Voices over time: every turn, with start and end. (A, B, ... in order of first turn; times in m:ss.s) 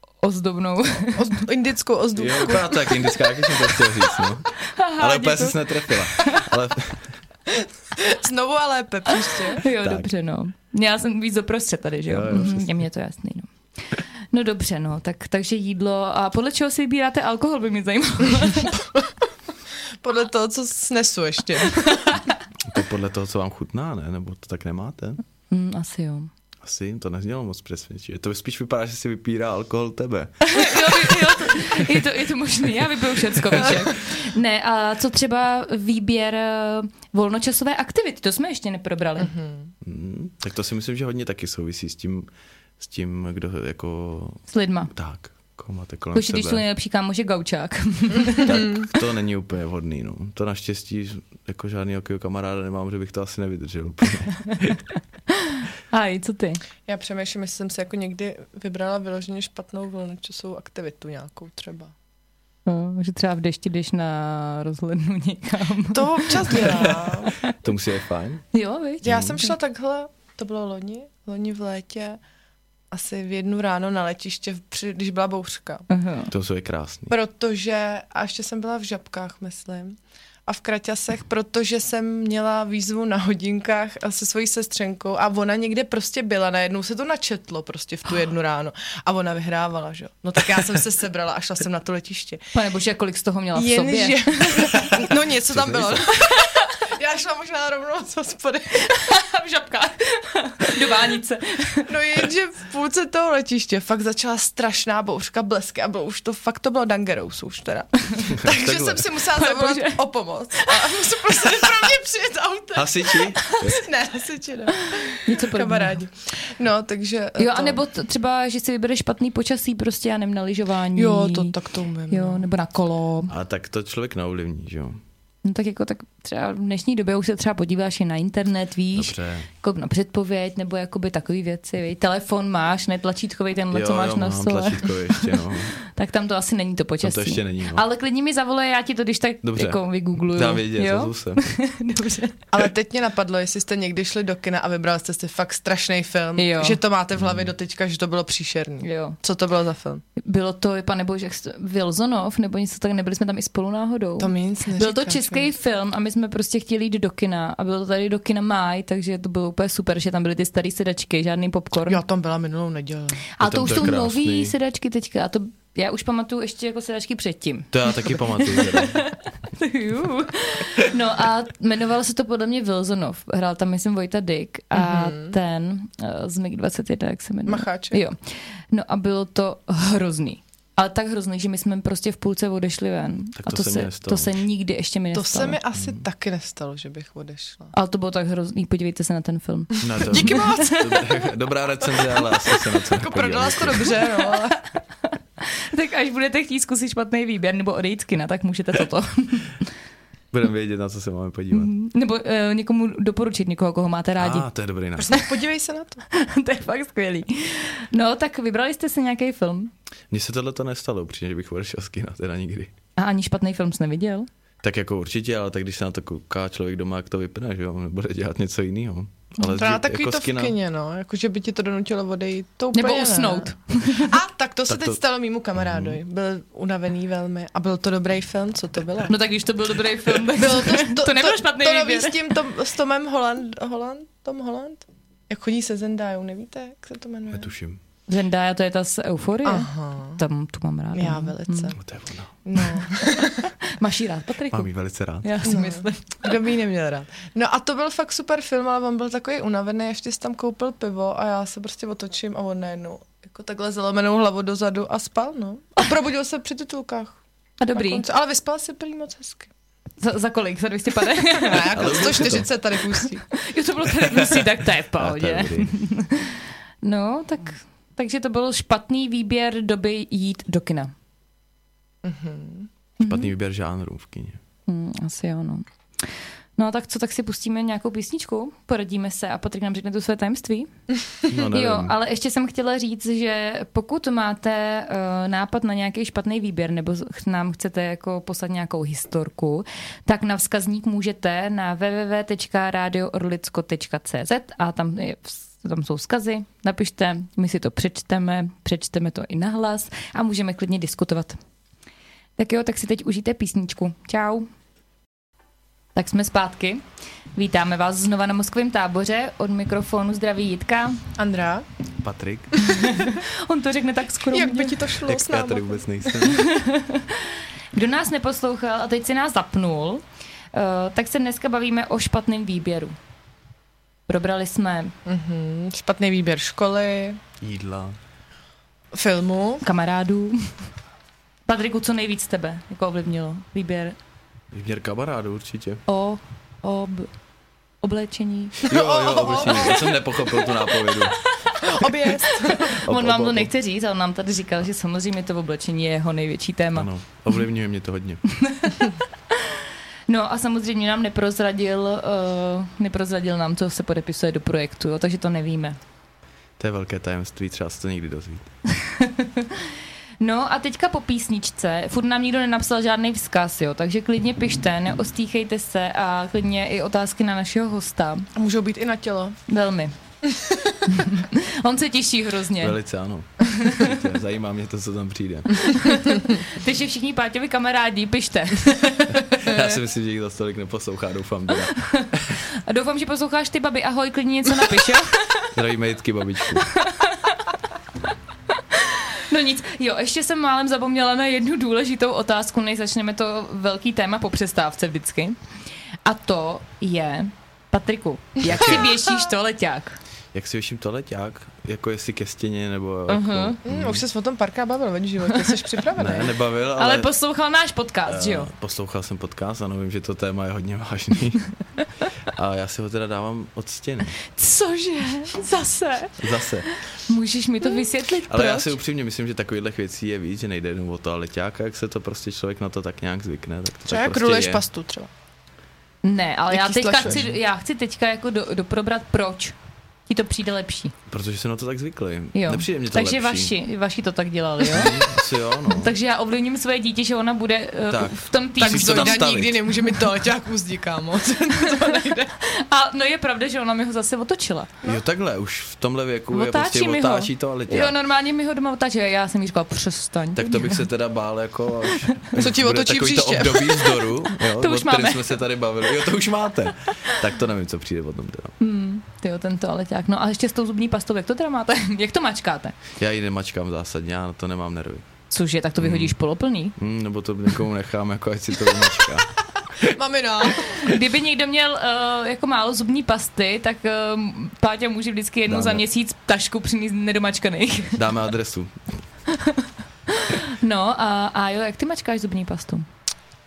0:00.2-0:01.4 A
0:01.2-0:03.1 B
0:02.2-0:07.1 C
0:04.6-0:06.5 A
0:07.6-0:09.7 B
0:09.1-0:18.8 A
0:09.8-0:10.1 C
0:12.1-0:12.8 C
0:20.0-0:22.2 B
0:21.9-0:22.4 A
0:22.6-0:25.2 C
0:25.5-0:26.3 A
0:26.6-0:31.9 C
0:30.4-0:39.3 A
0:39.2-0:39.7 B
0:39.8-0:42.3 C
0:42.8-0:44.4 C
0:44.5-0:44.9 A
0:44.9-0:46.6 C
0:46.1-0:48.6 A
0:48.4-0:54.8 C
0:55.3-0:56.6 A
0:56.9-1:01.9 B
1:02.7-1:07.6 A
1:05.9-1:07.4 B
1:06.6-1:08.4 C
1:08.5-1:09.5 A
1:09.0-1:12.2 B
1:09.0-1:09.4 C
1:12.9-1:15.9 B
1:15.9-1:16.3 A
1:16.3-1:17.1 C
1:17.1-1:32.5 B
1:32.5-1:34.8 A
1:33.6-1:39.0 B
1:35.5-1:36.1 C
1:36.2-1:36.8 A
1:38.8-1:41.9 A
1:41.9-1:57.8 B
1:48.4-1:49.1 C
1:49.3-1:50.0 A
1:50.6-1:51.1 A
1:52.8-1:53.8 C
1:54.8-1:56.0 A
1:57.4-2:01.6 A
2:01.0-2:02.5 B
2:02.1-2:03.3 A
2:03.3-2:05.0 C
2:05.4-2:22.4 A
2:08.9-2:09.5 C
2:13.7-2:15.8 C
2:17.0-2:17.8 C
2:19.4-2:21.4 C
2:22.5-2:30.0 B
2:26.4-2:26.8 A
2:27.2-2:27.5 C
2:28.8-2:29.2 A
2:30.2-2:42.0 A
2:34.2-2:35.5 B
2:41.9-2:43.2 B
2:43.4-3:05.6 A
2:43.4-2:44.6 C
2:47.7-2:49.0 C
2:54.7-2:55.4 B
2:57.5-2:58.0 B
3:03.4-3:04.3 C
3:05.1-3:07.7 B
3:05.7-3:06.0 C
3:07.7-3:10.9 A
3:09.8-3:14.0 C
3:10.0-3:11.2 B
3:11.9-3:14.6 B
3:14.1-3:14.6 A
3:15.4-3:19.7 A
3:20.3-3:21.7 C
3:21.5-3:24.5 A
3:24.2-3:25.2 C
3:25.0-3:26.0 B
3:26.1-3:29.7 A
3:30.1-3:32.7 C
3:33.0-3:34.3 A
3:34.6-3:40.5 C
3:39.4-3:49.2 B
3:42.7-3:44.2 A
3:44.7-3:45.0 C
3:45.6-3:46.0 C
3:49.1-3:52.2 A
3:50.2-3:57.5 B
3:57.3-3:57.8 C
3:58.1-4:01.8 A
3:59.4-4:00.2 B
4:01.0-4:01.8 B
4:01.8-4:02.3 C
4:02.4-4:03.5 B
4:03.6-4:04.7 A
4:04.5-4:05.5 C
4:05.2-4:06.4 A
4:05.4-4:17.2 B
4:17.6-4:18.0 A
4:17.7-4:19.5 B
4:20.0-4:22.4 A
4:21.3-4:23.3 B
4:21.7-4:22.5 C
4:23.0-4:30.9 A
4:23.9-4:25.8 C
4:32.0-4:32.7 B
4:33.0-4:33.3 A
4:33.0-4:34.4 C
4:34.7-4:40.7 A
4:41.3-4:42.0 C
4:41.3-5:01.4 A
5:02.4-5:04.5 A
5:06.0-5:06.8 A
5:07.4-5:11.0 A
5:11.2-5:11.7 B
5:12.0-5:12.6 C
5:12.6-5:14.8 A
5:14.3-5:16.1 B
5:15.1-5:16.4 C
5:16.3-5:22.9 A
5:24.1-5:24.9 A
5:25.1-5:27.2 B
5:27.4-5:28.0 C
5:28.9-5:29.6 B
5:29.6-5:30.5 A
5:31.5-5:34.0 A
5:34.5-5:35.8 C
5:35.9-5:37.1 A
5:37.8-5:38.7 A
5:38.6-5:41.2 C
5:38.7-5:40.0 B
5:39.3-5:46.9 A
5:41.6-5:42.8 B
5:42.8-5:43.5 C
5:46.8-5:48.2 C
5:48.4-5:55.8 A
5:56.6-5:58.5 C
5:58.7-6:08.3 A
6:08.4-6:09.4 B
6:09.5-6:09.9 A
6:10.3-6:10.8 B
6:10.9-6:12.8 A
6:12.6-6:15.9 C
6:13.4-6:14.0 A
6:15.6-6:19.6 A
6:19.1-6:22.4 C
6:21.7-6:22.1 A
6:22.6-6:25.5 A
6:25.5-6:26.7 C
6:26.6-6:27.5 A
6:28.5-6:35.4 A
6:36.0-6:40.0 A
6:38.4-6:39.0 C
6:40.3-6:44.0 C
6:43.1-6:43.6 A
6:43.7-6:46.4 B
6:46.0-6:47.1 C
6:46.8-6:48.5 A
6:48.1-6:51.5 C
6:52.2-6:54.2 C
6:54.3-6:58.8 A
6:56.2-6:56.7 C
6:58.3-7:04.6 C
7:03.9-7:05.1 B
7:06.0-7:09.6 A
7:06.5-7:07.3 B
7:07.0-7:07.3 C
7:10.1-7:10.9 A
7:11.1-7:13.5 C
7:12.3-7:15.1 A
7:14.7-7:15.9 C
7:15.6-7:19.3 A
7:17.9-7:19.7 C
7:18.6-7:22.4 B
7:22.4-7:24.8 A
7:24.8-7:28.0 C
7:26.3-7:30.8 A
7:30.4-7:38.6 C
7:32.4-7:34.1 B
7:34.4-7:35.4 A
7:38.6-7:42.8 A
7:43.0-7:45.1 C
7:45.3-7:46.8 A
7:45.8-7:46.2 C
7:46.8-7:50.0 C
7:49.8-7:50.9 B
7:50.6-7:58.0 A
7:55.5-7:55.8 C
7:58.0-7:59.0 C
7:59.3-8:02.9 A